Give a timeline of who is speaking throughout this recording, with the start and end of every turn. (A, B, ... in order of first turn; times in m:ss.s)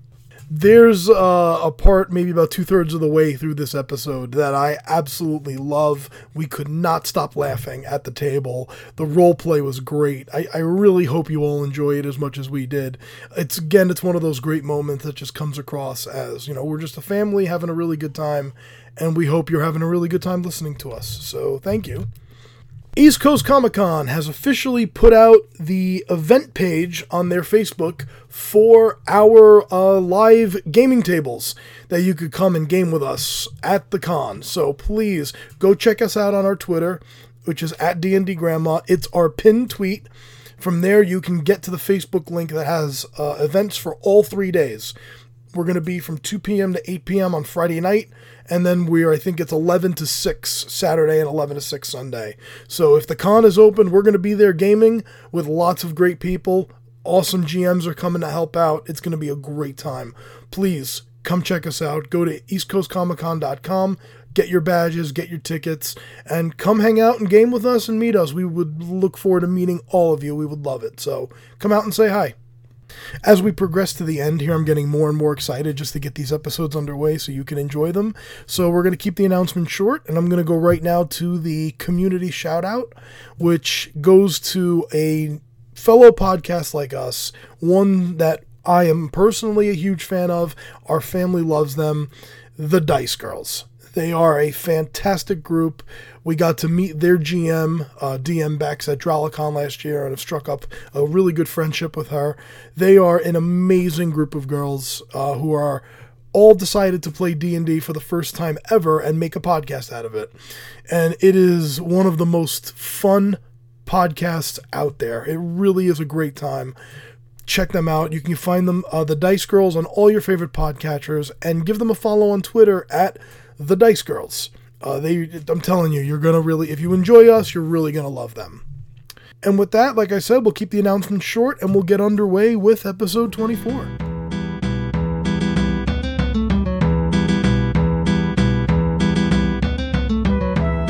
0:00.5-0:22.1 A
0:23.0-0:40.1 A
0:40.6-0:44.9 A
0:45.5-1:12.4 A
1:13.2-1:50.3 A
1:50.9-1:56.8 A
1:57.5-2:08.6 A
2:09.4-2:13.9 A